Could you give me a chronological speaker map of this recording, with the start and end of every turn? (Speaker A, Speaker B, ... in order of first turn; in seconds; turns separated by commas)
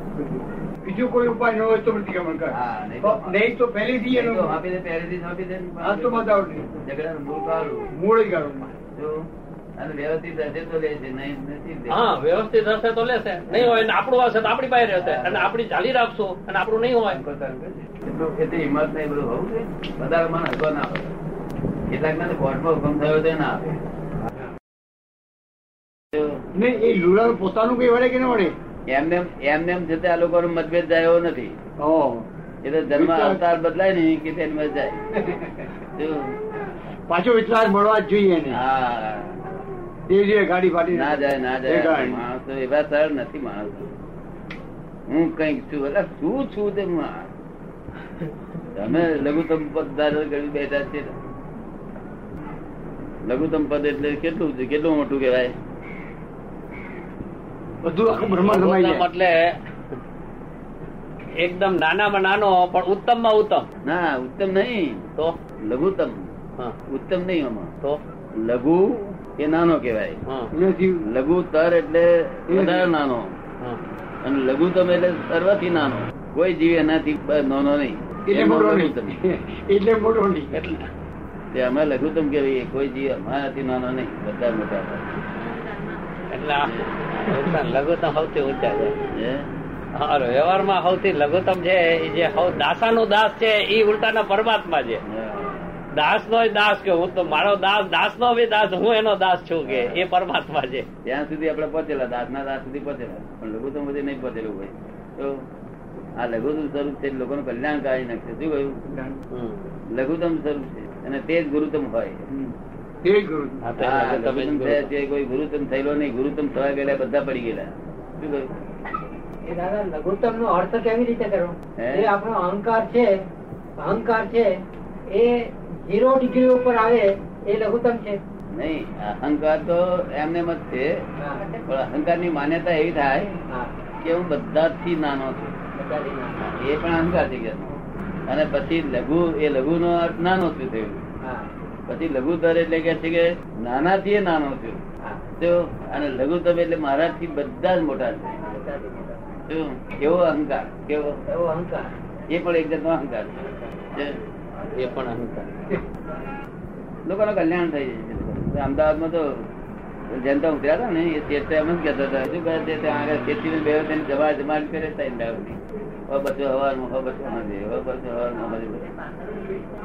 Speaker A: 0.8-4.6, Speaker B: 2.5-3.4, Speaker B: 4.1-7.8, Speaker A: 5.8-6.8, Speaker A: 8.0-8.8, Speaker B: 9.8-12.0, Speaker C: 11.9-17.2, Speaker B: 13.5-13.9, Speaker B: 15.0-15.5, Speaker B: 17.0-21.1, Speaker B: 21.9-23.8, Speaker B: 26.1-26.4, Speaker A: 26.5-28.5, Speaker B: 28.9-31.6, Speaker A: 31.8-32.3, Speaker B: 32.6-36.3, Speaker A: 32.9-33.4, Speaker A: 37.1-38.6, Speaker B: 38.5-39.4, Speaker A: 40.1-42.2, Speaker B: 40.9-43.9, Speaker B: 45.1-47.3, Speaker B: 48.7-51.1, Speaker B: 53.2-55.5, Speaker A: 57.8-59.1, Speaker C: 58.1-59.5, Speaker C: 61.4-63.7, Speaker B: 63.8-65.1, Speaker B: 65.6-66.2, Speaker B: 66.9-67.7, Speaker B: 68.4-70.2, Speaker A: 70.5-71.0, Speaker B: 71.1-73.3, Speaker A: 72.5-72.9, Speaker B: 74.2-79.1, Speaker A: 78.3-80.6, Speaker C: 80.5-80.8, Speaker B: 81.5-85.1, Speaker C: 86.3-89.0, Speaker B: 86.6-87.3, Speaker B: 89.1-89.5, Speaker C: 90.0-95.0, Speaker B: 95.1-95.8, Speaker C: 95.9-100.9, Speaker B: 99.6-100.0, Speaker B: 101.0-105.4, Speaker B: 106.2-108.8, Speaker A: 108.9-109.2, Speaker C: 109.3-109.7, Speaker B: 109.9-112.2, Speaker A: 113.0-113.6, Speaker C: 113.6-114.9, Speaker B: 113.8-118.5, Speaker D: 119.5-123.1, Speaker B: 121.8-122.1, Speaker D: 123.8-124.5, Speaker D: 125.1-128.2, Speaker B: 128.5-130.9, Speaker D: 131.2-131.5, Speaker B: 131.6-133.3, Speaker B: 134.0-135.6, Speaker D: 135.8-136.4, Speaker B: 136.4-141.0, Speaker B: 141.9-144.8, Speaker B: 145.4-148.4, Speaker D: 148.5-149.2, Speaker B: 149.5-151.2, Speaker D: 151.3-151.9, Speaker B: 152.3-153.4, Speaker C: 154.8-155.5, Speaker B: 157.1-159.4, Speaker B: 160.1-168.9